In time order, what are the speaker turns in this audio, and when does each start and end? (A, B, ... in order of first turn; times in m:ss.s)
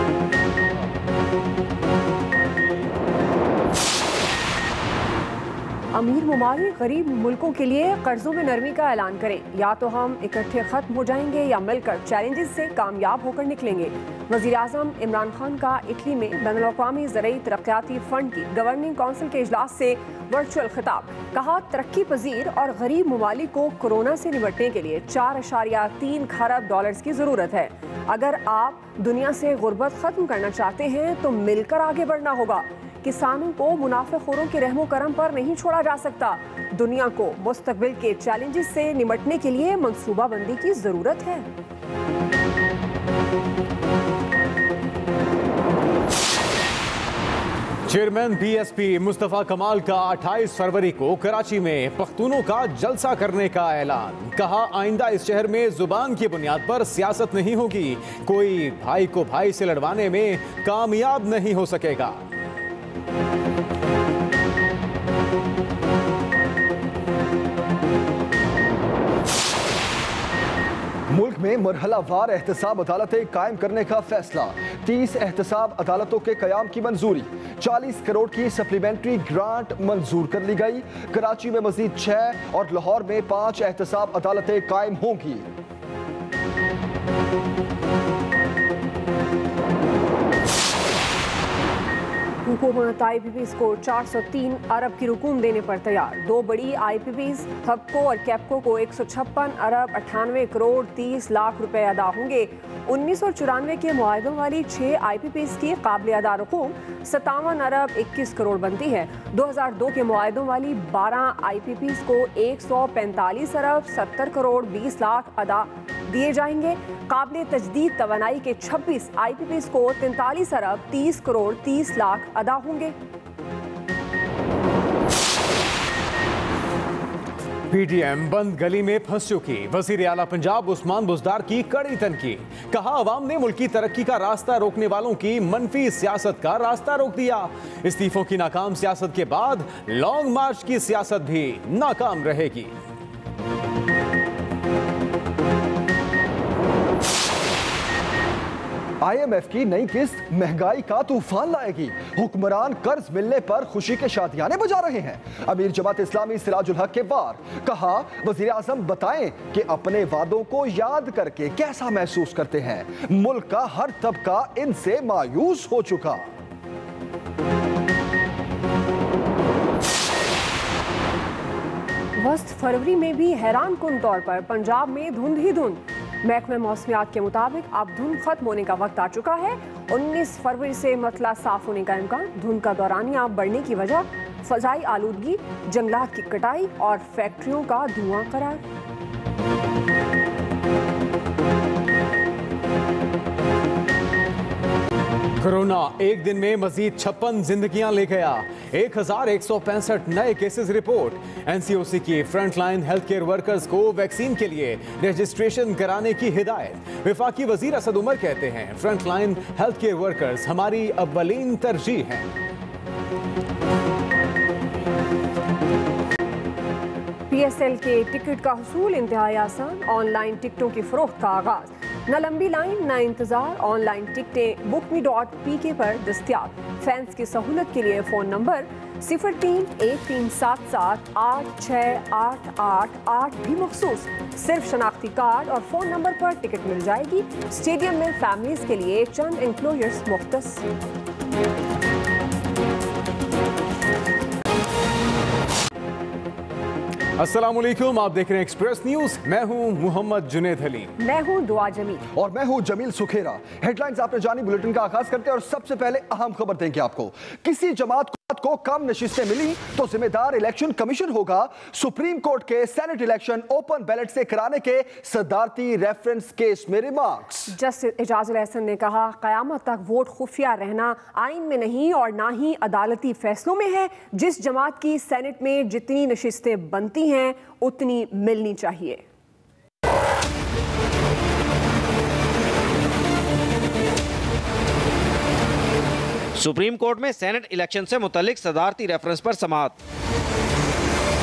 0:05.9-0:41.5 A
0:47.9-1:02.2 B
1:11.1-1:25.4 C
1:32.4-2:02.9 A
2:07.7-2:22.7 B
2:29.0-2:46.2 C
2:52.2-3:08.6 A
3:15.4-3:32.3 B
3:37.3-4:00.7 A
4:07.2-4:10.9 B
4:11.0-4:12.0 A
4:12.1-4:27.5 C
4:27.5-4:39.0 A
4:46.4-4:49.8 D